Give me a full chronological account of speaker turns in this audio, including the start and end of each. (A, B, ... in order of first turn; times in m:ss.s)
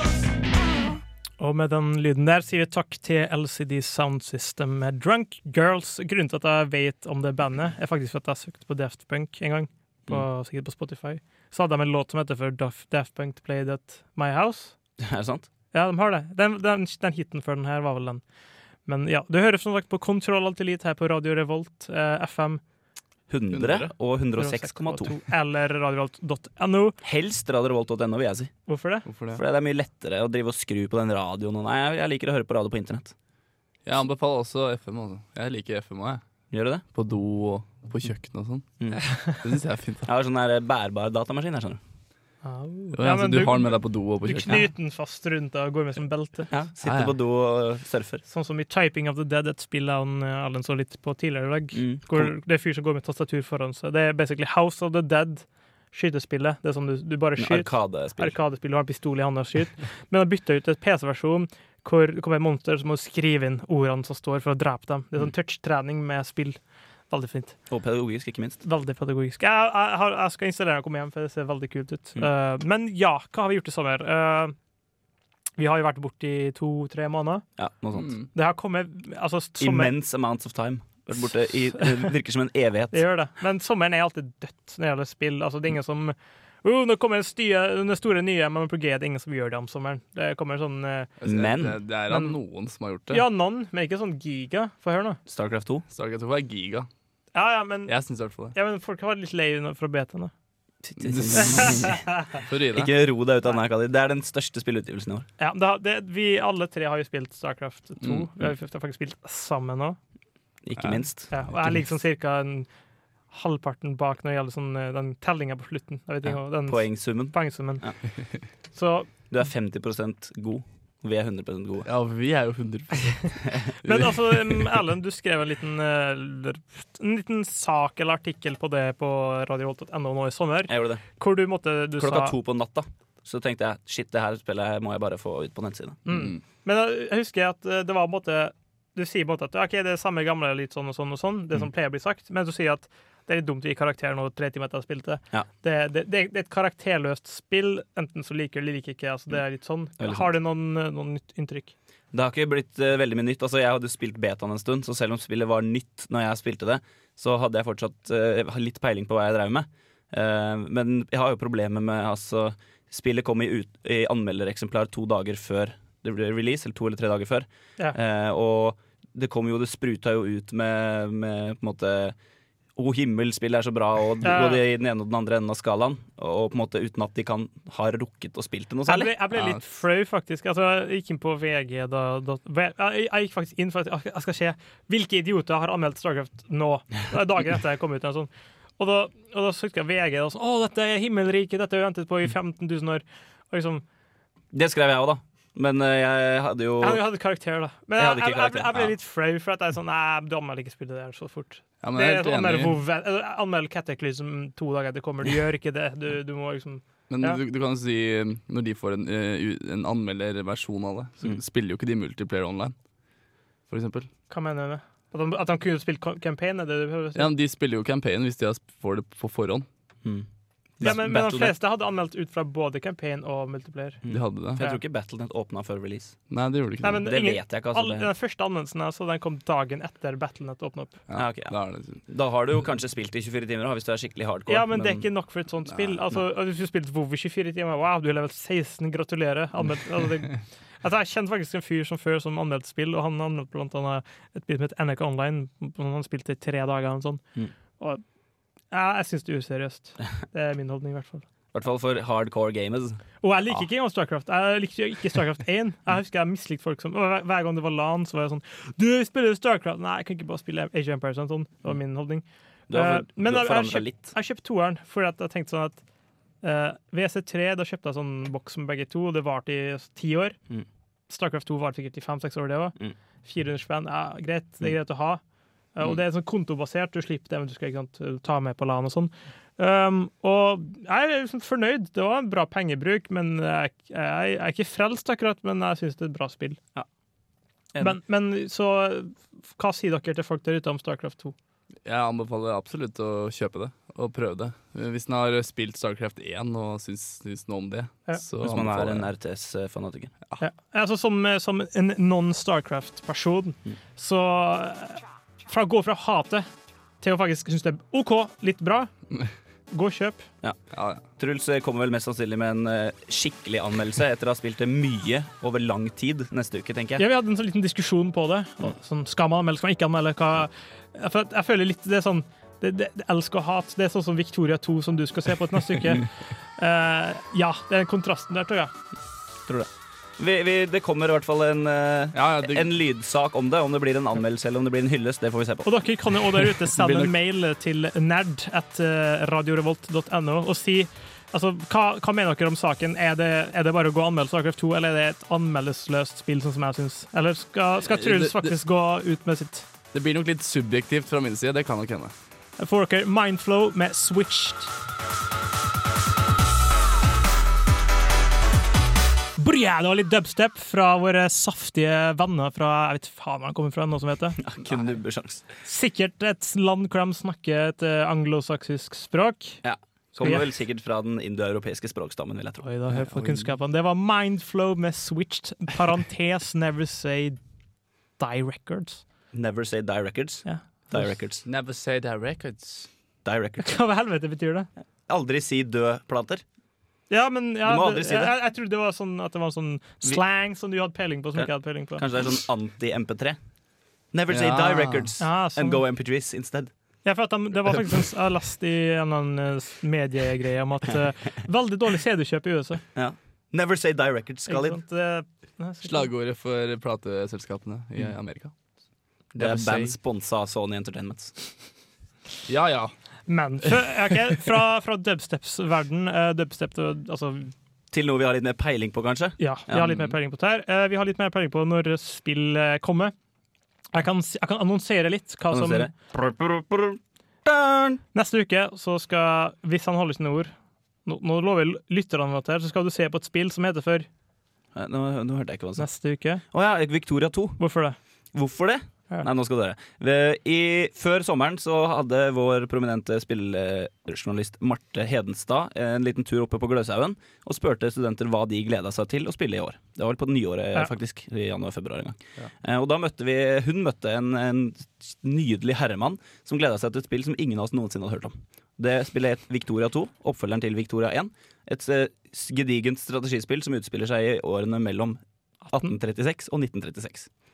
0:01.4-0:14.7 A
0:15.0-0:15.5 B
0:15.7-0:18.2 A
0:18.8-0:22.6 A
0:23.3-0:25.2 B
0:23.5-0:23.9 C
0:24.4-0:27.0 A
0:27.0-0:28.5 B
0:28.7-0:29.0 A
0:29.0-0:29.4 C
0:29.3-0:33.1 B
0:33.8-0:36.2 C
0:36.5-0:36.8 B
0:36.9-0:40.1 C
0:40.0-0:41.8 B
0:42.4-0:46.5 A
0:43.0-0:44.7 C
0:46.5-0:48.2 B
0:46.8-0:47.1 C
0:48.3-1:07.6 A
0:51.7-0:52.3 B
0:57.4-0:58.4 B
1:07.7-1:08.6 B
1:08.6-1:14.5 A
1:15.6-1:17.4 A
1:17.6-1:18.1 B
1:17.9-1:18.3 C
1:18.3-1:19.9 A
1:19.6-1:23.0 B
1:21.8-1:22.1 A
1:22.9-1:31.1 A
1:31.2-1:33.2 C
1:31.2-1:31.8 B
1:32.1-1:32.4 A
1:33.1-1:35.2 A
1:35.3-1:35.8 B
1:35.9-1:36.9 C
1:37.3-1:37.9 A
1:37.9-1:38.6 C
1:38.5-1:40.3 A
1:40.8-1:42.0 B
1:41.0-1:41.9 C
1:41.5-1:42.1 A
1:42.4-1:42.9 C
1:42.7-1:45.3 B
1:45.4-1:50.0 A
1:50.6-1:51.3 B
1:50.8-1:51.0 C
1:51.3-1:52.7 A
1:53.3-1:57.8 A
1:56.2-1:58.0 B
1:58.7-1:59.1 A
1:59.3-2:01.9 B
2:01.8-2:04.6 C
2:03.8-2:12.3 A
2:10.7-2:11.0 B
2:12.0-2:16.0 B
2:16.0-2:31.7 A
2:16.1-2:16.4 C
2:30.0-2:30.3 B
2:32.1-2:52.2 B
2:52.8-2:59.1 B
2:54.2-2:54.6 A
2:58.8-3:13.8 A
3:14.5-3:17.0 B
3:16.8-3:27.4 A
3:18.0-3:18.9 B
3:21.8-3:22.8 C
3:27.1-3:32.7 C
3:33.7-3:34.1 C
3:34.3-3:37.3 A
3:37.2-3:39.6 C
3:40.8-3:41.5 B
3:40.8-3:44.0 A
3:44.0-3:46.2 B
3:44.1-3:44.6 C
3:46.3-3:47.0 C
3:46.8-3:51.0 A
3:47.0-3:48.1 B
3:51.1-3:52.0 C
3:51.1-3:55.0 B
3:54.5-4:07.2 A
3:55.7-3:55.9 C
4:08.7-4:11.2 A
4:11.5-4:13.0 B
4:13.2-4:25.8 A
4:22.7-4:24.1 B
4:26.4-4:30.4 A
4:31.1-4:35.2 A
4:35.7-4:46.6 A
4:47.8-4:51.3 A
4:51.8-4:59.1 C
4:58.4-5:00.1 B
5:00.4-5:06.5 A
5:07.0-5:08.9 A
5:09.7-5:10.2 A
5:10.7-5:11.0 C
5:11.1-5:17.0 B
5:17.0-5:28.7 A
5:29.5-5:35.7 B
5:32.1-5:32.7 C
5:35.6-5:49.6 A
5:36.7-5:37.1 C
5:47.8-5:48.5 C
5:49.9-5:52.1 C
5:52.6-5:54.7 A
5:59.4-6:04.4 A
6:04.4-6:05.4 B
6:05.6-6:09.6 A
6:09.6-6:12.7 B
6:12.6-6:17.4 A
6:13.1-6:13.5 C
6:18.2-6:19.0 A
6:19.3-6:21.4 B
6:20.4-6:21.1 A
6:21.4-6:22.9 C
6:23.2-6:23.7 B
6:23.6-6:24.7 A
6:25.1-6:26.4 B
6:27.1-6:32.0 A
6:27.6-6:28.3 B
6:31.4-6:33.4 B
6:34.1-6:36.7 B
6:34.3-6:35.1 C
6:35.2-6:35.8 A
6:37.0-6:42.8 A
6:42.9-6:44.8 B
6:44.5-6:46.1 A
6:45.8-6:48.5 C
6:49.3-6:50.0 C
6:49.4-6:51.4 B
6:52.5-6:52.9 C
6:53.3-6:57.5 A
6:57.9-7:00.1 B
6:59.4-7:03.1 A
7:03.9-7:05.9 A
7:05.5-7:08.0 B
7:08.1-7:10.5 A
7:11.0-7:14.1 A
7:14.7-7:15.9 B
7:15.8-7:16.4 A
7:16.5-7:17.6 B
7:17.6-7:18.0 A
7:18.3-7:45.2 B
7:45.7-7:47.3 B